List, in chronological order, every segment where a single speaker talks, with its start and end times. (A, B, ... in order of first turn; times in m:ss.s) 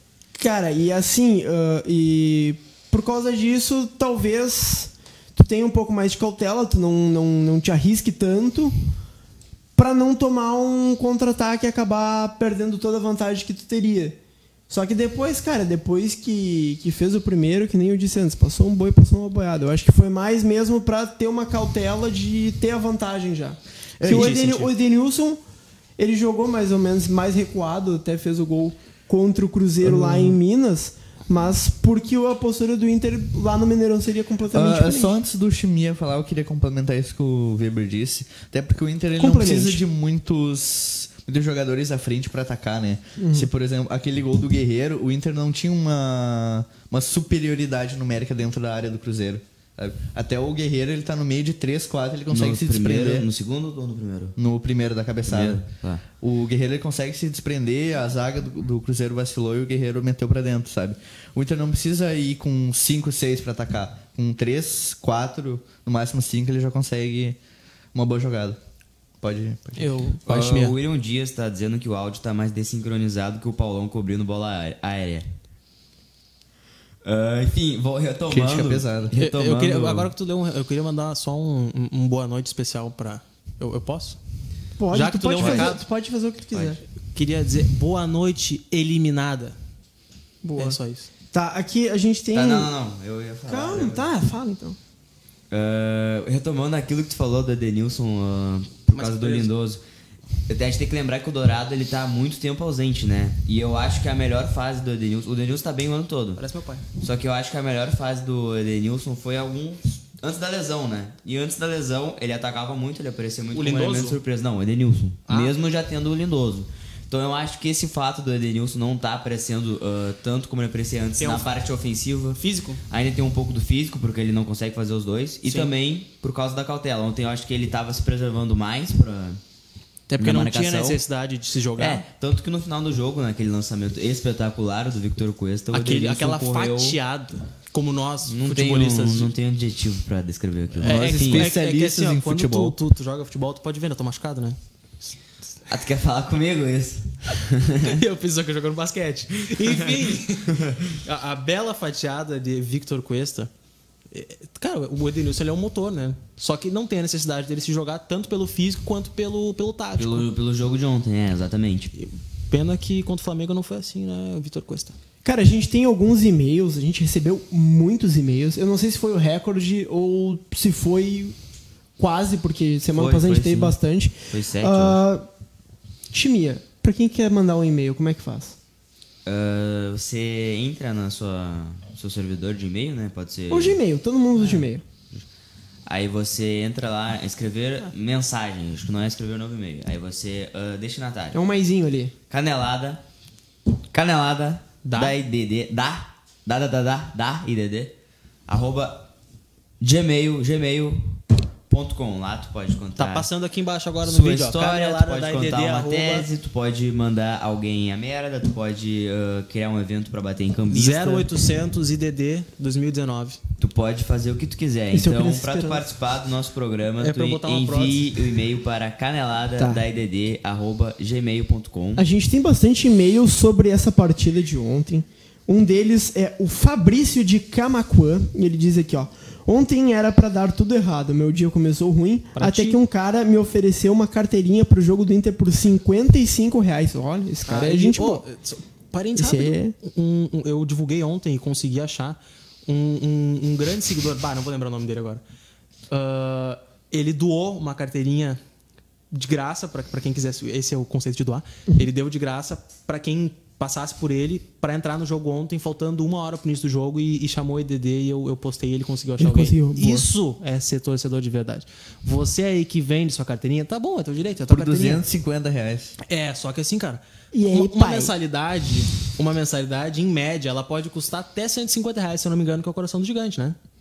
0:00.4-0:08.8 A
0:09.8-0:14.2 A
0:14.7-0:25.4 A
0:24.0-0:24.4 B
0:24.0-0:24.7 C
0:26.0-0:35.2 A
0:29.8-0:30.4 B
0:34.5-0:53.3 B
0:39.2-0:39.8 A
0:43.2-0:43.5 A
0:52.3-0:54.4 D
0:54.4-0:55.6 B
0:55.3-0:56.0 D
0:56.2-1:07.4 B
1:07.9-1:08.6 B
1:09.2-1:10.0 B
1:09.8-1:10.8 C
1:10.3-1:15.3 D
1:17.0-1:20.1 D
1:18.3-1:19.1 B
1:19.2-1:24.2 C
1:24.8-1:26.8 A
1:24.9-1:25.8 C
1:25.4-1:25.7 D
1:27.1-1:29.6 C
1:30.4-1:30.8 A
1:30.6-1:31.1 C
1:31.3-1:32.7 A
1:32.3-1:34.1 D
1:33.5-1:34.8 A
1:35.5-1:39.8 D
1:38.9-1:39.5 C
1:40.5-1:46.4 D
1:46.4-1:46.9 C
1:47.0-2:09.4 D
1:53.5-1:54.2 C
1:55.3-1:55.5 C
2:01.2-2:01.5 C
2:02.4-2:02.8 C
2:05.5-2:05.7 C
2:10.1-2:12.0 C
2:10.2-2:11.0 D
2:11.8-2:17.0 D
2:15.7-2:19.3 C
2:18.3-2:21.5 D
2:20.8-2:24.6 C
2:20.8-2:22.8 B
2:25.7-2:28.0 D
2:27.8-2:33.5 C
2:29.6-2:30.8 D
2:34.1-2:40.3 C
2:40.0-2:41.9 D
2:42.0-2:45.0 C
2:45.2-2:51.4 A
2:52.0-2:55.3 A
2:53.0-2:55.0 D
2:56.1-2:58.6 A
2:59.3-3:03.8 D
3:03.5-3:04.8 A
3:04.4-3:05.2 D
3:05.9-3:11.4 D
3:11.3-3:12.1 A
3:12.3-3:13.0 D
3:13.9-3:17.9 D
3:14.8-3:15.2 C
3:18.5-3:19.1 D
3:19.8-3:21.1 D
3:21.7-3:23.3 D
3:23.0-3:26.3 C
3:24.0-3:31.3 D
3:30.7-3:33.4 C
3:33.6-3:42.1 D
3:34.9-3:35.8 A
3:37.0-3:38.2 C
3:42.0-3:58.2 A
3:52.4-3:52.8 C
3:57.5-4:05.2 C
3:59.2-3:59.8 A
4:05.9-4:08.4 C
4:09.1-4:25.0 C
4:19.2-4:20.1 A
4:24.5-4:26.0 B
4:26.1-4:33.6 C
4:27.3-4:28.1 A